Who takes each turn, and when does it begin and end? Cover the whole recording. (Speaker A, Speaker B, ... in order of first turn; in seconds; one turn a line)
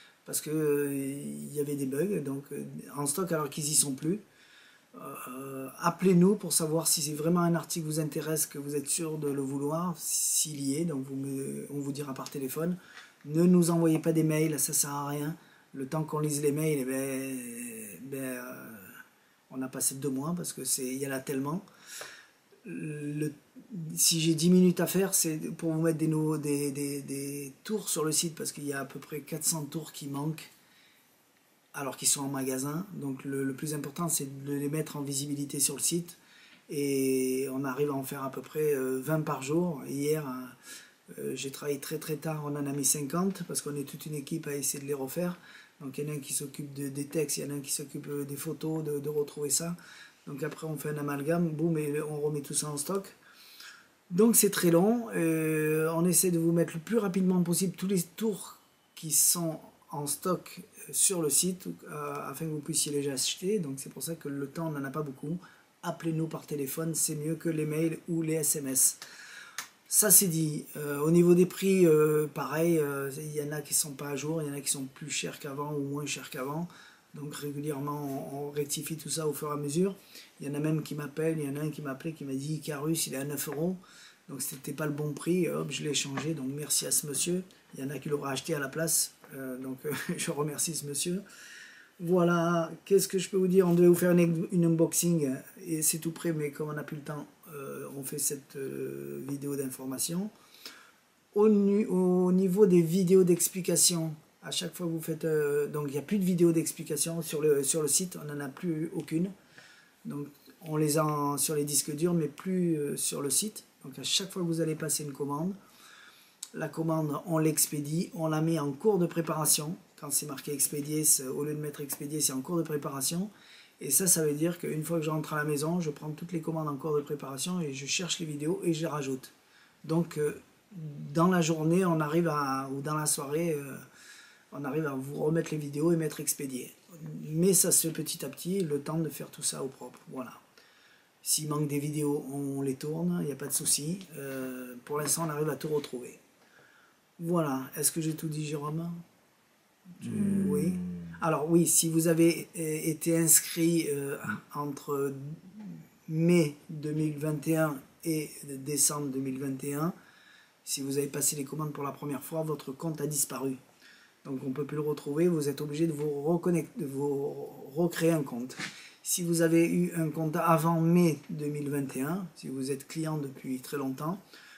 Speaker A: 0.2-4.2
Speaker A: 4.9-19.0
Speaker A: 19.5-21.6
Speaker A: 22.6-30.5
Speaker A: 31.7-36.2
Speaker A: 36.7-40.5
Speaker A: 41.1-53.1
Speaker A: 54.1-69.0
Speaker A: 69.9-91.2
Speaker A: 92.0-100.3
Speaker A: 101.3-109.3
Speaker A: 110.0-115.5
Speaker A: 116.5-129.3
Speaker A: 129.8-133.8
Speaker A: 134.5-140.4
Speaker A: 141.2-146.2
Speaker A: 147.2-149.0
Speaker A: 149.9-159.9
Speaker A: 160.6-163.6
Speaker A: 164.2-174.2